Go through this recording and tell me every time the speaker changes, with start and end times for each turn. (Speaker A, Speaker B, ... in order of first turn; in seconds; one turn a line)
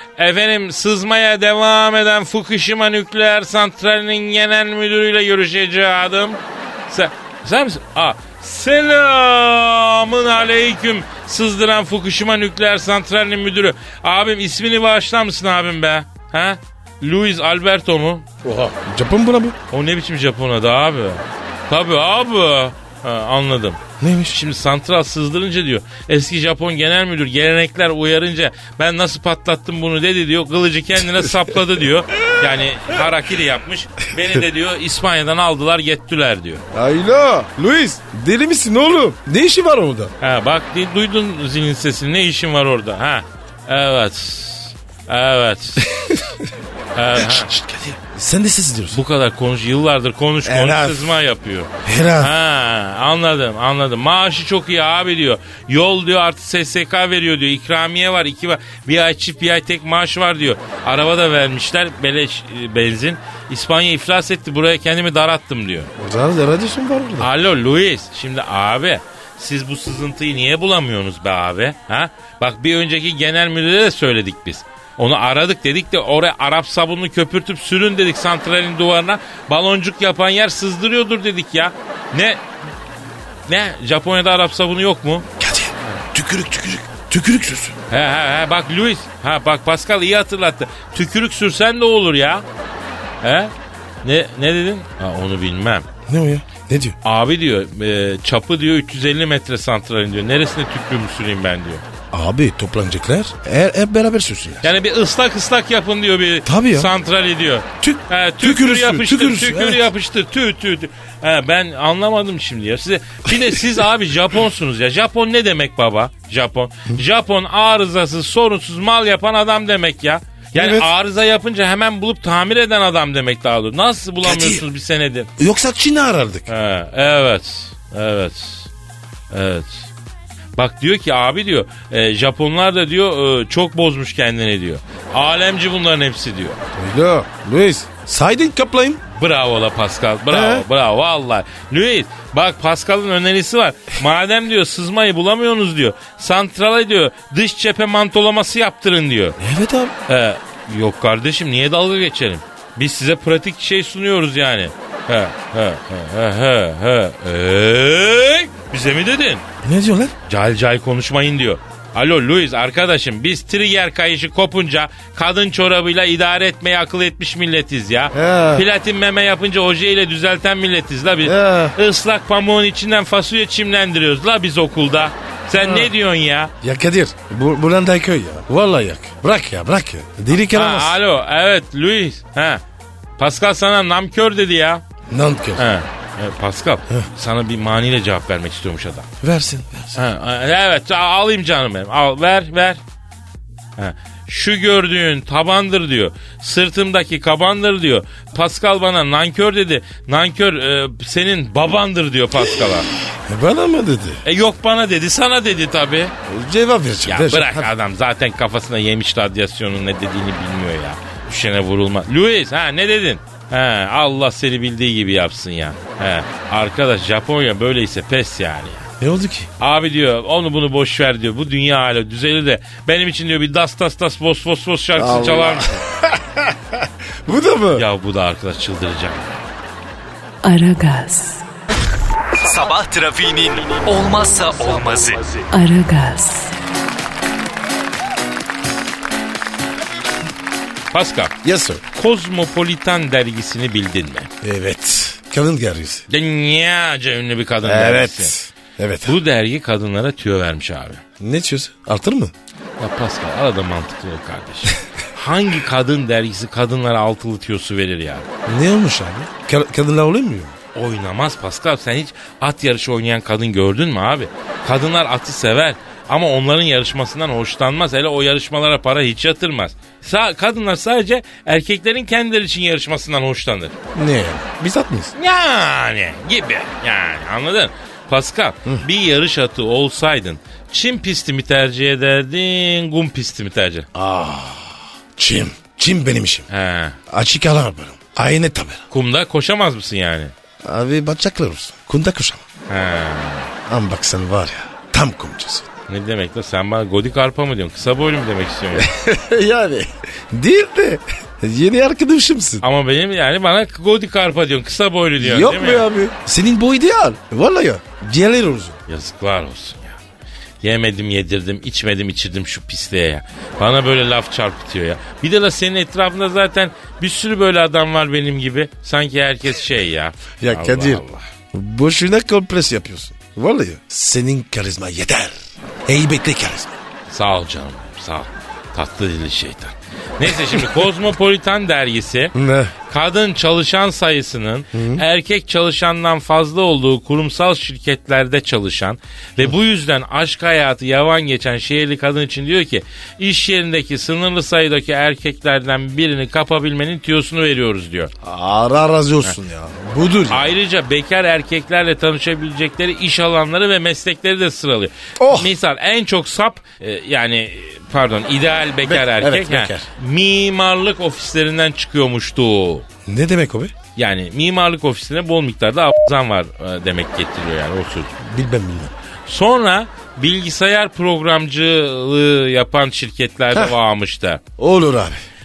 Speaker A: 0.2-18.3
Speaker B: 18.4-19.6
Speaker A: 19.7-36.6
Speaker B: 24.0-24.4
Speaker B: 31.2-31.5
Speaker B: 36.7-40.1
Speaker A: 40.2-45.9
Speaker B: 45.8-46.5
Speaker A: 46.9-47.5
Speaker B: 47.1-49.0
Speaker A: 48.9-65.9
Speaker B: 50.4-51.1
Speaker B: 51.8-52.3
Speaker B: 66.0-67.3
Speaker A: 67.2-82.4
Speaker A: 83.5-85.3
Speaker B: 85.4-87.7
Speaker A: 87.9-92.4
Speaker A: 93.2-93.5
Speaker A: 94.0-95.9
Speaker B: 96.1-97.0
Speaker A: 97.0-101.8
Speaker B: 102.1-104.7
Speaker A: 104.6-125.3
Speaker B: 106.4-106.9
Speaker B: 107.8-109.9
Speaker B: 120.5-120.9
Speaker B: 124.2-124.6
Speaker B: 125.4-126.5
Speaker A: 126.5-128.7
Speaker A: 129.3-129.9
Speaker A: 130.6-136.6
Speaker B: 136.7-139.0
Speaker A: 139.1-149.4
Speaker B: 140.3-140.7
Speaker B: 149.4-149.9
Speaker A: 150.1-159.4
Speaker B: 159.6-160.1
Speaker A: 160.3-176.5
Speaker B: 168.1-168.6
Speaker B: 171.2-171.8
Speaker B: 175.5-175.9
Speaker B: 176.6-181.0
Speaker A: 180.5-182.6
Speaker A: 183.2-184.8
Speaker B: 185.1-185.7
Speaker A: 185.6-189.1
Speaker B: 189.2-190.0
Speaker A: 189.9-192.8
Speaker A: 193.8-202.9
Speaker B: 203.2-204.2
Speaker A: 204.2-206.1
Speaker B: 206.2-207.7
Speaker A: 207.1-218.9
Speaker B: 219.0-219.5
Speaker A: 219.6-225.7
Speaker B: 224.9-227.8
Speaker A: 227.7-229.4
Speaker C: 230.4-231.4
Speaker D: 232.4-235.4
Speaker C: 235.5-236.5
Speaker A: 240.9-241.3
Speaker B: 241.4-241.8
Speaker A: 241.9-244.3
Speaker B: 244.4-246.1
Speaker A: 246.1-248.3
Speaker B: 247.6-249.2
Speaker A: 249.1-251.0
Speaker B: 251.2-252.3
Speaker A: 252.8-258.2
Speaker B: 258.4-260.5
Speaker A: 260.7-273.7
Speaker B: 273.9-275.1
Speaker A: 275.1-283.9
Speaker B: 283.9-286.5
Speaker A: 286.5-287.0
Speaker B: 287.1-288.8
Speaker A: 288.9-290.3
Speaker B: 290.6-292.4
Speaker A: 292.7-293.5
Speaker B: 293.7-295.7
Speaker A: 295.9-298.9
Speaker B: 298.7-302.6
Speaker A: 302.6-305.9
Speaker B: 305.2-308.8
Speaker A: 308.9-310.0
Speaker A: 310.6-321.2
Speaker B: 320.4-326.8
Speaker A: 327.1-332.3
Speaker B: 332.3-332.7
Speaker A: 332.9-348.1
Speaker B: 334.7-335.0
Speaker B: 348.2-350.4
Speaker A: 350.3-362.8
Speaker B: 355.2-355.5
Speaker B: 358.8-359.9
Speaker B: 363.1-363.7
Speaker A: 363.9-368.1
Speaker B: 368.2-368.9
Speaker A: 369.3-374.4
Speaker B: 374.6-375.2